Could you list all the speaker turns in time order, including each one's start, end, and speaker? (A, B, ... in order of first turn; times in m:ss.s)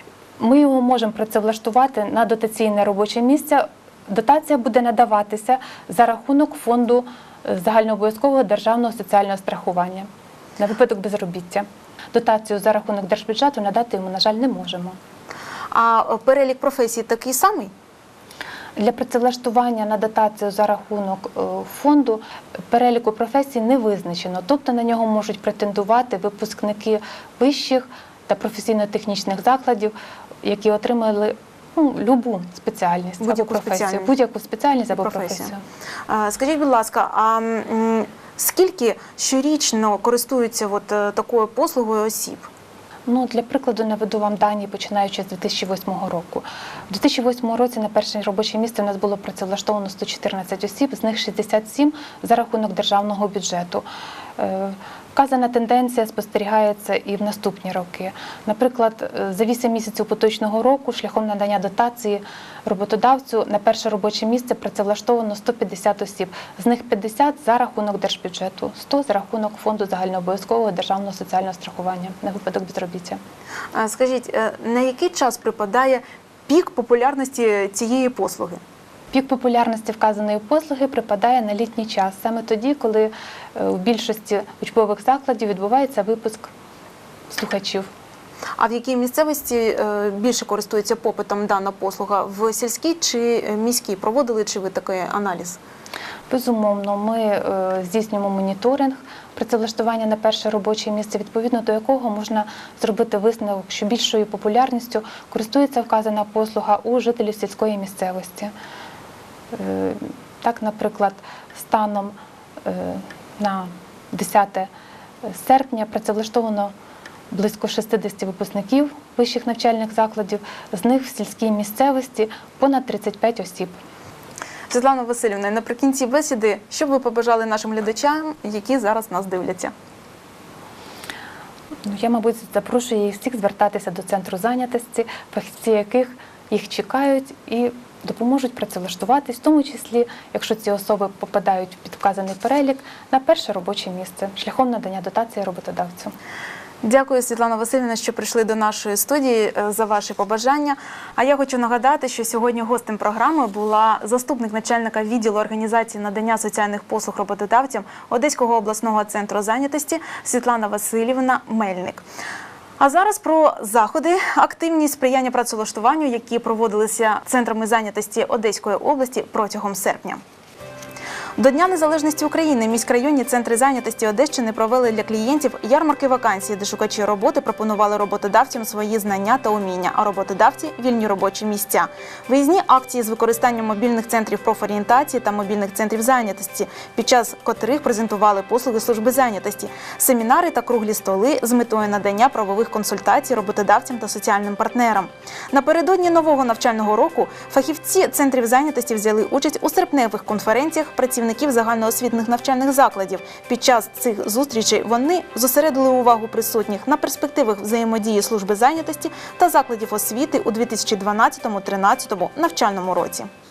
0:00.4-0:10.1 A
0:10.6-0:15.0 A
0:15.7-0:17.7 B
0:18.8-0:35.6 A
0:33.2-0:34.1 B
0:35.0-0:35.5 B
0:36.1-0:42.5 B
0:43.1-0:53.8 A
0:54.4-1:13.2 A
1:13.7-1:18.6 B
1:19.1-1:26.5 A
1:27.3-1:27.9 A
1:28.6-1:35.6 B
1:36.3-1:48.5 A
1:49.5-1:54.7 A
1:55.3-1:56.7 A
1:57.3-2:03.7 A
2:04.7-2:09.7 B
2:11.9-2:26.1 A
2:26.8-2:42.0 B
2:42.8-2:50.2 B
2:51.4-3:33.3 B